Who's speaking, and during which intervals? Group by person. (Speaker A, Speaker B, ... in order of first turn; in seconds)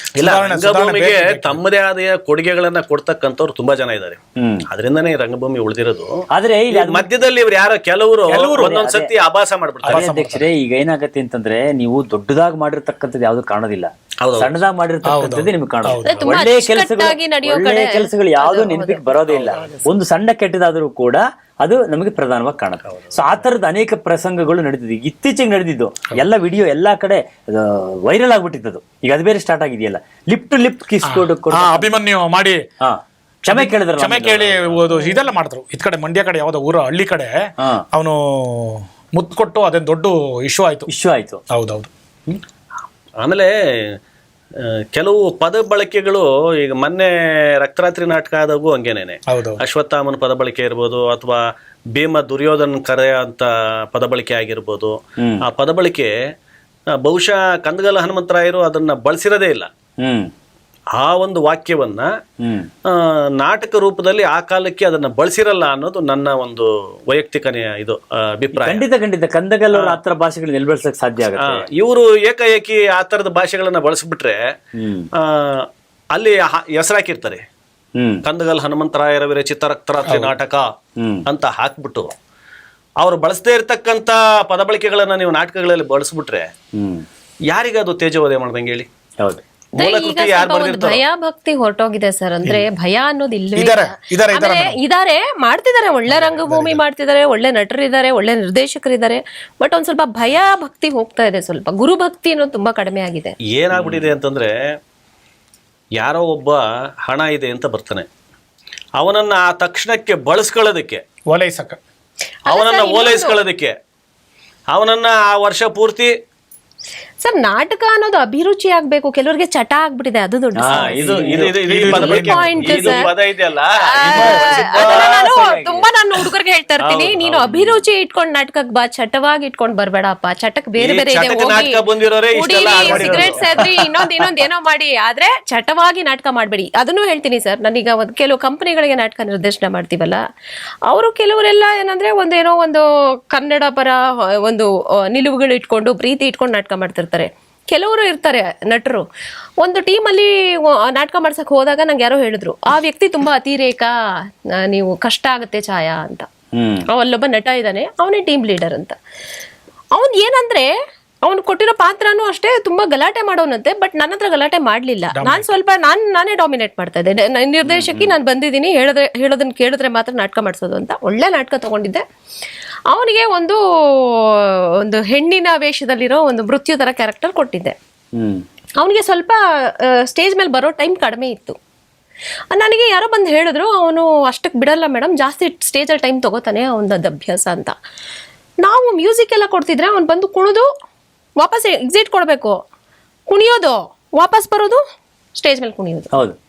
Speaker A: 0.2-1.6, 8.3-8.8, 9.8-10.5, 15.1-16.4, 31.1-32.6, 33.5-40.9, 41.5-41.9, 49.3-49.6, 80.1-80.3, 93.5-94.8, 96.1-96.8, 111.3-111.8, 121.3-123.0, 132.8-133.7, 165.2-165.5
Speaker B: 0.2-6.2, 6.7-10.1, 14.2-14.6, 19.4-19.8, 22.9-23.4, 43.2-44.0, 44.6-51.4, 51.9-56.1, 57.0-59.7, 61.0-62.1, 62.9-68.8, 69.7-70.0, 71.4-74.4, 75.2-77.4, 78.2-80.7, 81.3-82.1, 83.0-86.5, 87.5-88.9, 89.8-91.0, 103.5-104.5, 106.0-108.1, 109.0-111.0, 112.5-113.8, 114.7-116.1, 120.7-125.2, 126.8-127.8, 130.8-133.8
Speaker C: 4.4-4.7, 6.3-7.1, 8.5-9.1, 9.9-32.0, 32.8-34.8, 37.6-37.9, 40.9-41.4, 55.2-55.5, 60.0-60.3, 62.4-62.7, 68.5-71.7, 74.7-75.1, 78.0-78.2, 81.0-81.3, 86.7-87.0, 103.7-104.2, 120.5-122.3, 124.1-125.9, 156.5-156.9, 167.7-168.2, 178.2-178.4, 196.1-196.4
Speaker D: 16.0-19.1, 89.8-103.4, 112.5-113.4, 117.2-121.2, 121.9-123.1, 123.8-131.8, 132.3-140.2, 140.9-149.1, 149.6-153.9, 154.6-156.3, 156.9-159.0, 159.9-160.7, 161.2-172.0, 172.9-177.8, 178.8-181.6, 182.5-187.8, 188.6-190.7, 191.4-192.6, 193.3-194.8, 195.4-196.1